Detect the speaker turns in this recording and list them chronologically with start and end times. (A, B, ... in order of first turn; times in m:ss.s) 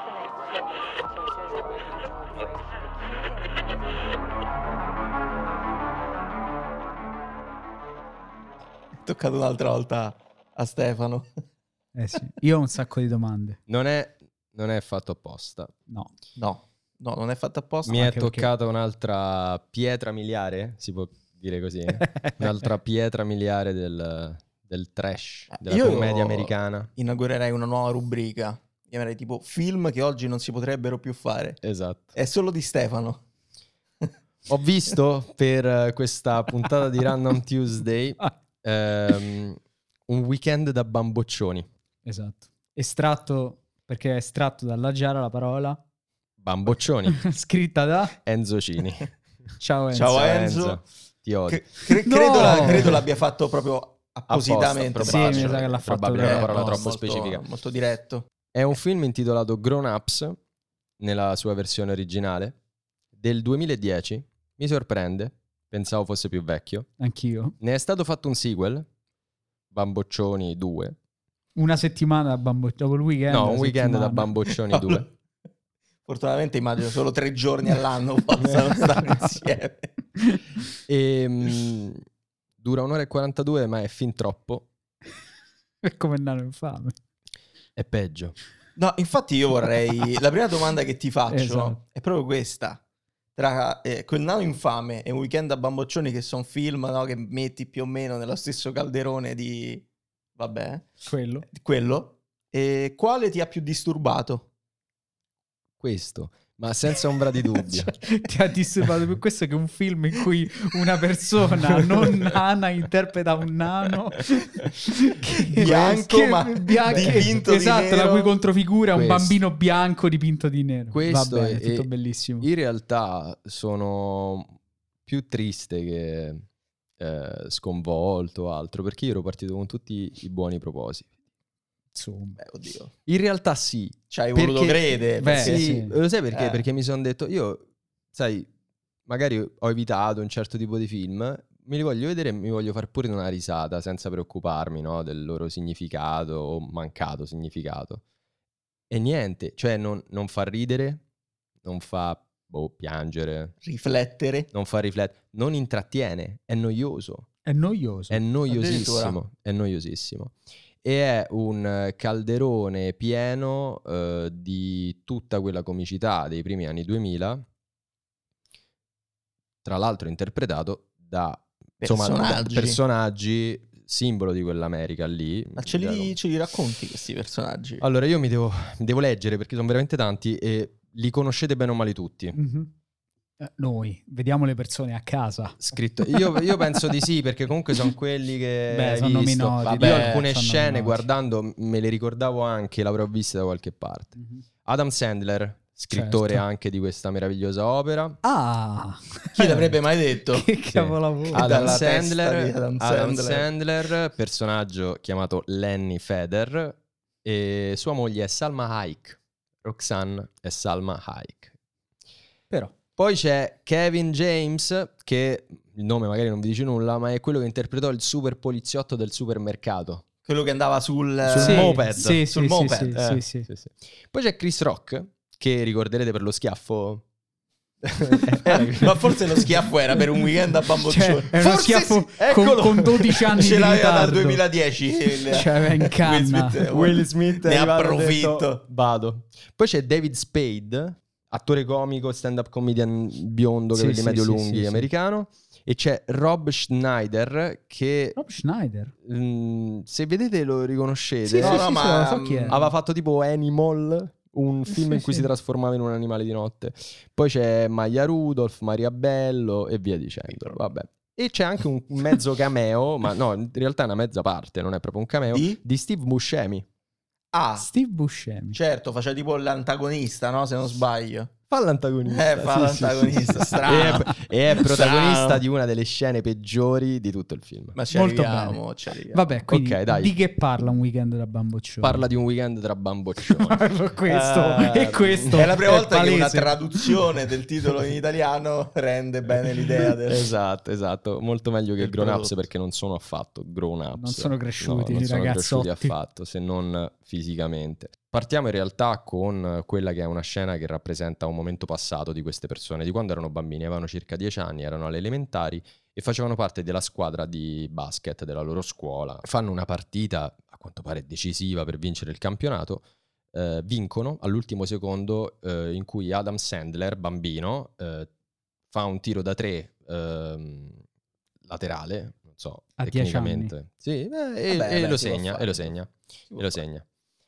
0:09.0-0:11.3 A
0:11.9-0:13.6 B
0:13.7-0:15.7 C
0:16.4-0:18.0 A
0:17.8-0:26.9 C
0:17.9-0:18.5 B
0:25.5-0:31.6 A
0:31.6-0:32.1 C
0:32.1-0:33.2 A
0:34.5-0:41.7 C
0:42.0-0:45.8 B
0:46.4-0:47.3 C
0:47.1-0:48.2 B
0:48.2-0:49.1 C
0:49.6-0:50.2 B
0:49.9-0:50.8 A
0:50.1-0:51.6 C
0:51.5-0:58.2 A
0:52.0-0:53.0 B
0:52.4-0:53.0 C
0:54.3-0:57.4 C
0:55.0-0:56.8 B
0:58.5-1:00.4 C
1:01.0-1:02.6 C
1:03.2-1:06.9 C
1:07.0-1:07.6 B
1:07.6-1:08.9 C
1:09.7-1:11.0 C
1:11.6-1:14.3 B
1:13.3-1:15.1 C
1:16.0-1:19.9 A
1:20.9-1:22.0 C
1:22.6-1:24.7 C
1:25.8-1:26.9 B
1:27.8-1:28.4 C
1:28.8-1:32.8 A
1:31.3-1:31.8 B
1:33.4-1:39.8 A
1:40.4-1:40.9 A
1:41.0-1:41.4 B
1:41.5-1:44.5 A
1:45.8-1:47.9 C
1:47.9-2:02.5 B
1:51.8-1:52.4 A
1:55.4-1:58.3 A
1:56.9-1:57.2 C
1:58.9-1:59.4 C
2:00.9-2:01.9 C
2:02.4-2:04.5 C
2:05.0-2:06.4 C
2:07.0-2:11.1 C
2:11.9-2:12.4 B
2:12.4-2:12.9 A
2:13.0-2:18.5 C
2:14.1-2:15.6 A
2:15.2-2:16.0 B
2:16.3-2:16.6 A
2:19.0-2:28.0 C
2:28.9-2:31.0 C
2:31.6-2:33.5 C
2:33.6-2:34.5 A
2:34.5-2:37.3 C
2:37.4-2:38.2 B
2:38.1-2:47.4 C
2:38.5-2:39.2 A
2:49.6-2:56.2 C
2:51.8-2:52.8 A
2:55.6-2:57.8 A
2:57.8-3:02.4 C
3:02.3-3:02.7 B
3:03.4-3:06.6 B
3:05.6-3:18.2 C
3:08.7-3:11.1 B
3:09.6-3:10.3 A
3:14.2-3:14.4 B
3:15.9-3:16.4 B
3:18.2-3:19.8 B
3:19.3-3:20.5 A
3:20.3-3:21.7 B
3:20.7-3:31.5 C
3:21.3-3:23.5 A
3:33.0-3:40.0 C
3:40.2-3:43.0 A
3:41.2-3:42.2 C
3:41.4-3:43.5 B
3:42.9-3:47.0 C
3:47.8-3:49.4 C
3:48.8-3:51.4 A
3:50.8-3:54.4 B
3:51.3-3:53.2 C
3:53.3-3:58.6 A
3:55.3-3:56.6 B
3:56.7-4:08.2 C
4:03.7-4:04.9 B
4:08.2-4:08.9 B
4:09.0-4:11.7 C
4:11.3-4:12.6 B
4:11.4-4:12.6 A
4:12.5-4:26.6 C
4:25.3-4:25.6 A
4:27.3-4:27.6 A
4:27.6-4:28.6 B
4:28.5-4:31.3 A
4:31.5-4:37.8 C
4:32.1-4:35.4 A
4:37.7-4:39.3 A
4:37.9-4:38.6 B
4:39.1-4:42.0 B
4:39.5-4:40.1 C
4:41.8-4:45.4 C
4:43.2-4:47.1 B
4:45.3-4:50.3 A
4:50.1-5:18.1 C
4:51.8-4:52.5 A
4:54.0-4:55.9 B
5:18.7-5:20.8 C
5:21.4-5:26.8 C
5:22.8-5:23.5 B
5:24.5-5:25.7 A
5:26.3-5:26.6 A